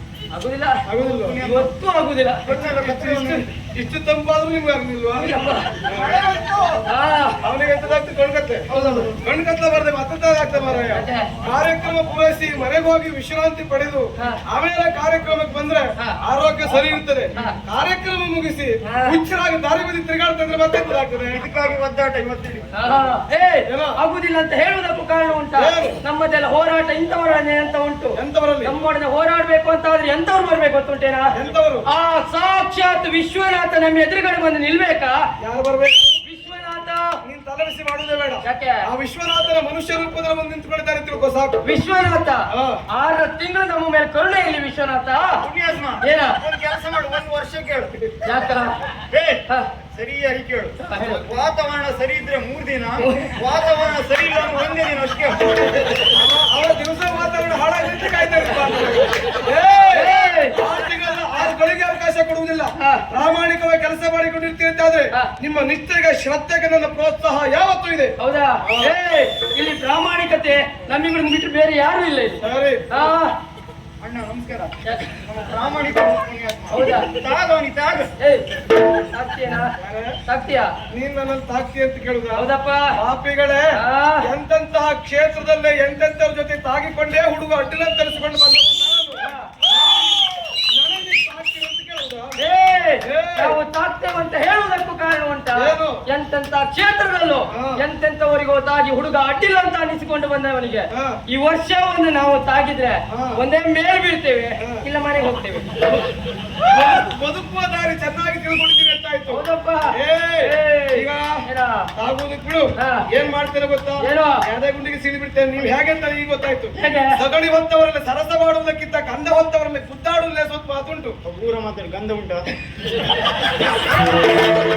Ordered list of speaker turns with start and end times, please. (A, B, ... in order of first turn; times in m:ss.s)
0:00.3-0:02.5 A
0:00.8-0:01.4 B
0:01.0-0:01.7 C
0:02.4-0:03.4 C
0:02.5-0:06.6 B
0:05.1-0:05.8 A
0:06.9-0:07.4 A
0:07.4-0:21.4 B
0:08.7-0:09.1 A
0:08.7-0:09.1 C
0:10.9-0:11.3 A
0:18.8-0:19.2 A
0:21.3-0:22.9 C
0:22.7-0:31.3 A
0:23.7-0:24.0 B
0:25.6-0:26.0 B
0:28.2-0:28.7 B
0:31.3-0:31.9 B
0:31.8-0:35.3 A
0:35.4-0:36.2 B
0:36.2-0:37.2 A
0:37.2-0:41.6 B
0:38.4-0:38.9 A
0:41.6-0:45.4 A
0:42.5-0:42.8 B
0:45.4-0:47.9 C
0:46.0-0:46.4 A
0:48.2-0:48.8 A
0:49.1-0:49.4 C
0:49.9-0:55.5 C
0:50.8-0:51.2 A
0:53.0-0:53.3 A
0:56.0-1:08.9 B
0:59.9-1:00.6 A
1:02.8-1:03.0 A
1:08.2-1:13.3 A
1:12.4-1:12.8 B
1:14.0-1:18.1 C
1:14.8-1:15.1 A
1:16.7-1:17.1 A
1:18.2-1:19.7 A
1:19.8-1:20.2 B
1:20.2-1:20.8 A
1:20.9-1:23.7 B
1:22.3-1:22.9 A
1:23.7-1:24.3 A
1:24.2-1:32.4 B
1:32.4-1:46.0 A
1:33.0-1:33.6 B
1:35.6-1:36.0 B
1:37.5-1:37.8 B
1:40.9-1:41.2 B
1:43.1-1:43.4 B
1:46.6-1:51.4 B
1:49.3-1:51.9 A
1:52.0-2:01.2 B
1:52.8-1:53.0 A
1:54.0-1:54.4 A
1:56.8-1:57.2 A
2:01.2-2:02.4 C